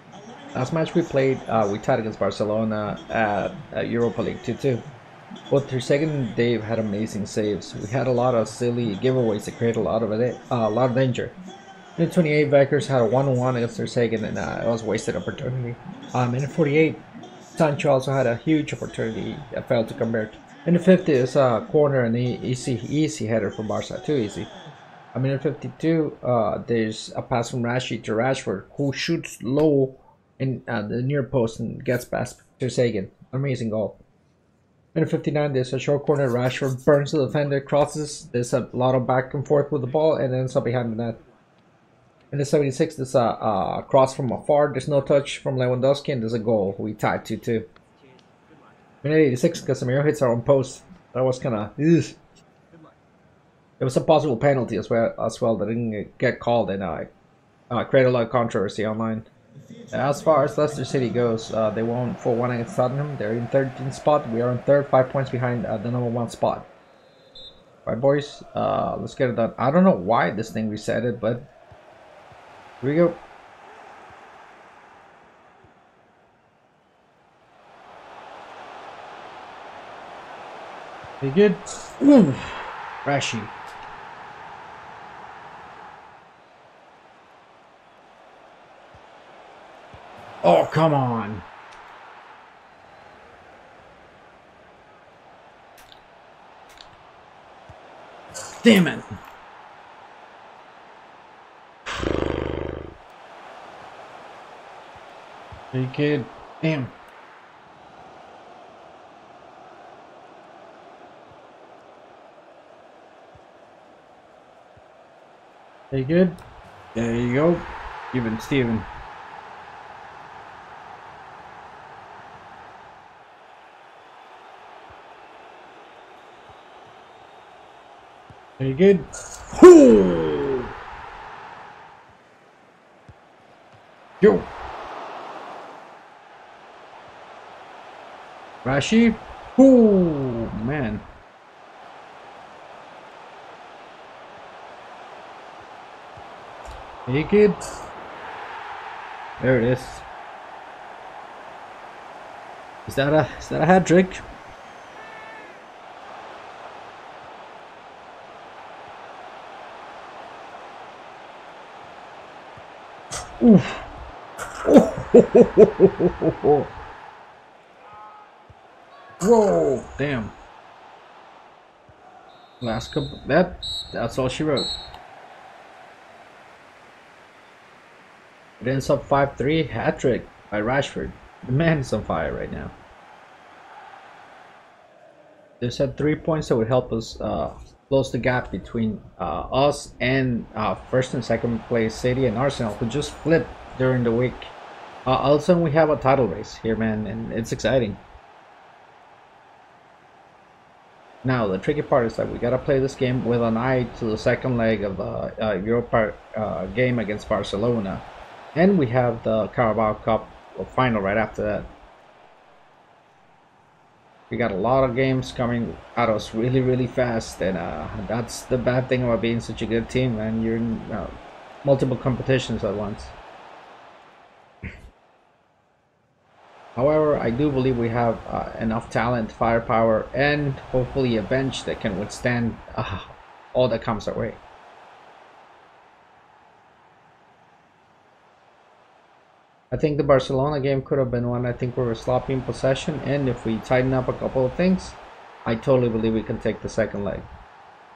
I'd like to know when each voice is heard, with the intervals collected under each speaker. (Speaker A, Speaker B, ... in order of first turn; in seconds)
Speaker A: 0.6-4.8, 5.5-11.4, 12.0-24.5, 25.1-34.0, 35.0-41.2, 42.3-47.7, 49.0-52.2, 53.8-57.1, 57.7-59.3, 59.9-66.7, 67.8-71.5, 72.8-73.2, 81.2-83.5, 90.4-91.5, 98.6-99.1, 105.7-106.9, 115.9-116.4, 117.0-118.9, 128.6-130.7, 134.2-134.5, 138.6-141.1, 147.1-147.6, 149.4-150.1, 152.9-154.2, 163.4-163.9, 164.6-166.7, 169.2-170.3, 172.6-174.7, 178.6-182.7, 185.6-194.5, 195.1-198.0, 201.2-211.7, 214.3-223.2, 226.8-234.4, 239.7-247.3